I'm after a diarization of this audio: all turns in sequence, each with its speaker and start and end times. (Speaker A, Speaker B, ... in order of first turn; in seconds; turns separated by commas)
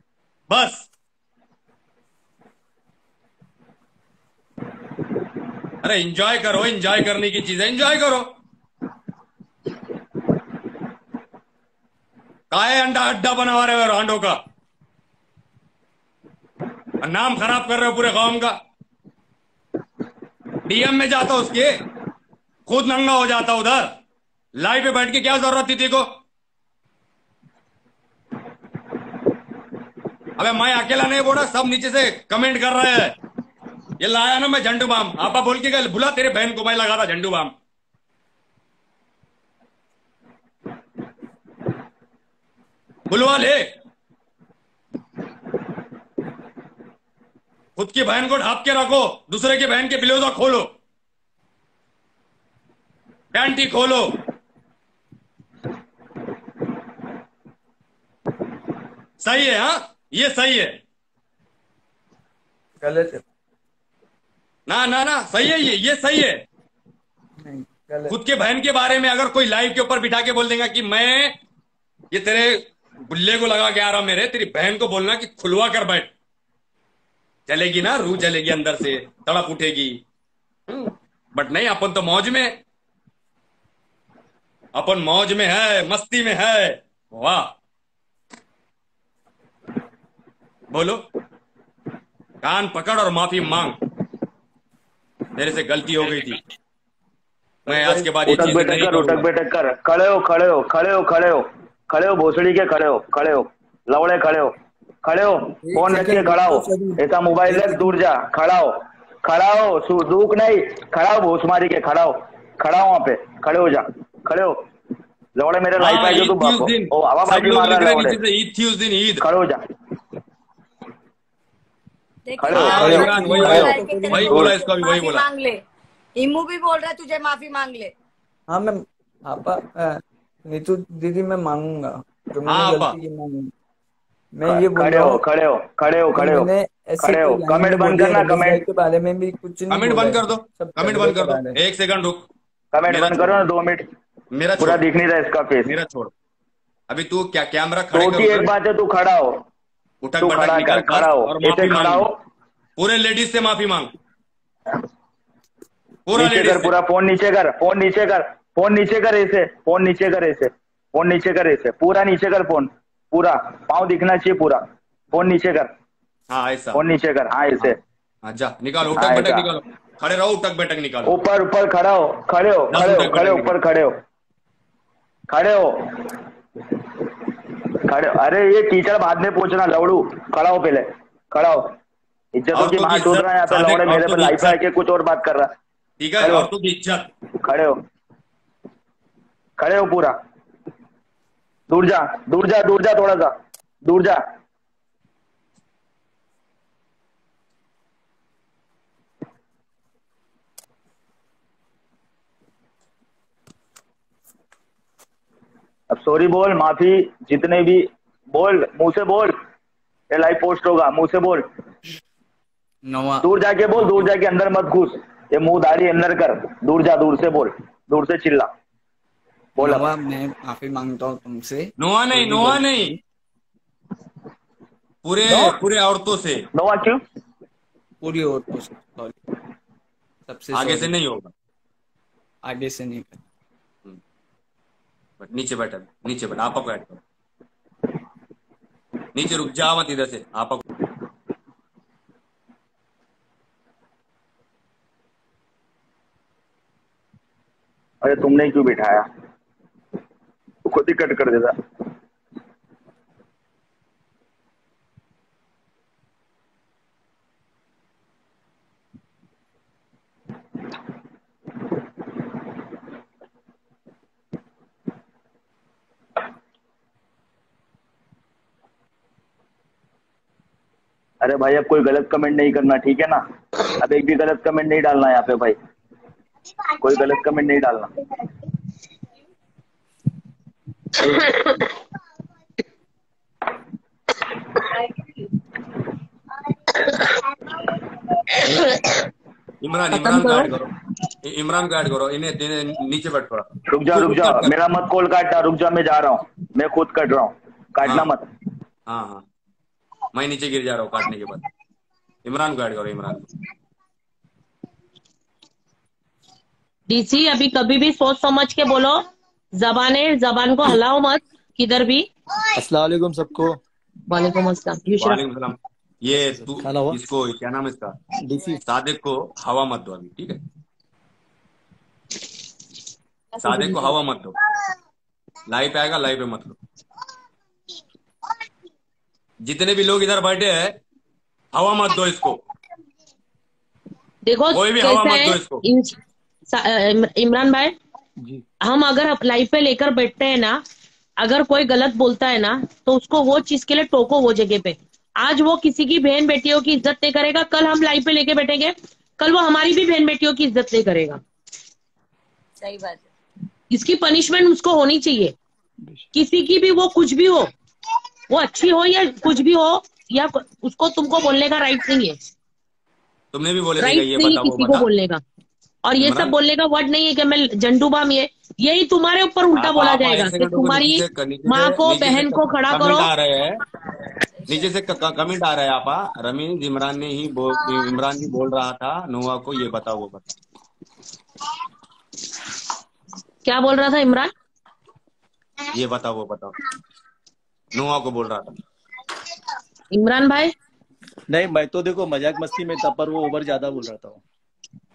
Speaker A: 0.5-0.9, Speaker A: 5.8-8.3, Speaker A: 12.5-14.4, Speaker A: 17.0-18.6, Speaker A: 20.6-21.8, Speaker A: 22.7-23.9, Speaker A: 24.6-26.1, Speaker A: 30.4-33.1, Speaker A: 34.0-37.5, Speaker A: 43.1-43.7, Speaker A: 47.8-50.7, Speaker A: 53.3-54.1, Speaker A: 59.2-60.8, Speaker B: 62.8-63.2, Speaker A: 64.7-66.4, Speaker B: 67.4-68.2, Speaker A: 68.1-71.4, Speaker A: 72.1-76.1, Speaker A: 77.5-80.0, Speaker A: 80.7-82.6, Speaker A: 84.7-87.5, Speaker A: 90.7-91.0, Speaker A: 92.4-93.8, Speaker A: 95.3-96.4, Speaker B: 97.6-98.1, Speaker A: 97.7-99.2, Speaker C: 98.2-114.6, Speaker B: 105.6-107.9, Speaker C: 115.3-118.2, Speaker A: 115.8-119.2, Speaker C: 119.2-119.6, Speaker D: 122.3-125.6, Speaker C: 122.4-123.8, Speaker A: 122.5-125.2, Speaker B: 122.7-124.5, Speaker D: 126.2-127.9, Speaker B: 128.5-133.5, Speaker A: 132.5-132.9, Speaker B: 134.3-135.2, Speaker C: 134.5-136.5, Speaker B: 136.1-141.6, Speaker C: 137.0-138.6, Speaker A: 139.7-142.3, Speaker C: 142.7-143.9, Speaker A: 142.9-143.5, Speaker A: 144.3-144.8, Speaker C: 144.6-145.7, Speaker A: 145.6-146.1, Speaker A: 146.9-148.5, Speaker C: 147.9-149.4, Speaker A: 150.0-152.1, Speaker C: 150.2-152.1, Speaker A: 152.8-153.9, Speaker A: 156.1-156.7, Speaker C: 156.1-165.7, Speaker A: 166.3-166.8, Speaker C: 166.7-167.8, Speaker A: 168.2-171.1, Speaker C: 168.9-169.5, Speaker C: 171.1-174.0, Speaker A: 172.7-173.5, Speaker C: 175.3-175.9, Speaker C: 177.9-181.7, Speaker C: 182.4-185.5, Speaker A: 182.5-184.6, Speaker A: 186.0-187.1, Speaker C: 186.2-186.5, Speaker C: 187.4-187.8, Speaker C: 189.6-190.1, Speaker C: 191.7-193.3, Speaker C: 193.8-194.2, Speaker C: 205.9-209.4, Speaker C: 210.1-211.5, Speaker B: 212.8-213.3, Speaker C: 213.2-218.5, Speaker C: 219.6-219.8, Speaker B: 219.6-223.0, Speaker A: 221.8-222.9, Speaker A: 225.0-226.4, Speaker C: 225.3-225.5, Speaker C: 226.5-227.0, Speaker B: 228.0-229.2, Speaker B: 230.3-230.9, Speaker A: 230.5-231.3, Speaker B: 232.4-233.2, Speaker A: 235.2-237.0, Speaker A: 239.1-240.6, Speaker C: 248.0-249.1, Speaker C: 250.6-251.6, Speaker C: 271.2-273.2, Speaker C: 273.7-275.6, Speaker C: 276.8-277.9, Speaker E: 281.0-281.6, Speaker E: 288.4-288.9, Speaker A: 289.6-290.7, Speaker E: 289.9-290.5, Speaker A: 291.2-294.5, Speaker C: 293.7-298.2, Speaker A: 297.8-298.1, Speaker A: 298.9-299.2, Speaker A: 300.1-301.4, Speaker A: 302.2-303.2, Speaker E: 306.9-312.1, Speaker F: 312.6-313.6, Speaker E: 314.1-315.2, Speaker A: 315.0-317.9, Speaker F: 316.1-317.0, Speaker F: 318.2-318.6, Speaker A: 318.6-320.4, Speaker A: 323.4-324.4, Speaker A: 325.5-326.6, Speaker A: 329.4-330.8, Speaker A: 331.5-332.4, Speaker E: 334.2-335.9, Speaker A: 334.5-335.6, Speaker E: 336.5-337.7, Speaker E: 338.6-340.6, Speaker E: 341.2-351.2, Speaker D: 352.6-353.0, Speaker E: 353.7-355.3, Speaker E: 356.1-357.5, Speaker E: 358.3-362.2, Speaker A: 363.3-364.9, Speaker E: 363.8-365.2, Speaker E: 365.8-373.1, Speaker A: 366.0-366.3, Speaker A: 369.5-373.6, Speaker A: 374.5-380.3, Speaker E: 383.4-384.3, Speaker A: 385.7-386.5, Speaker A: 387.7-388.6, Speaker E: 389.9-390.5, Speaker F: 391.3-394.2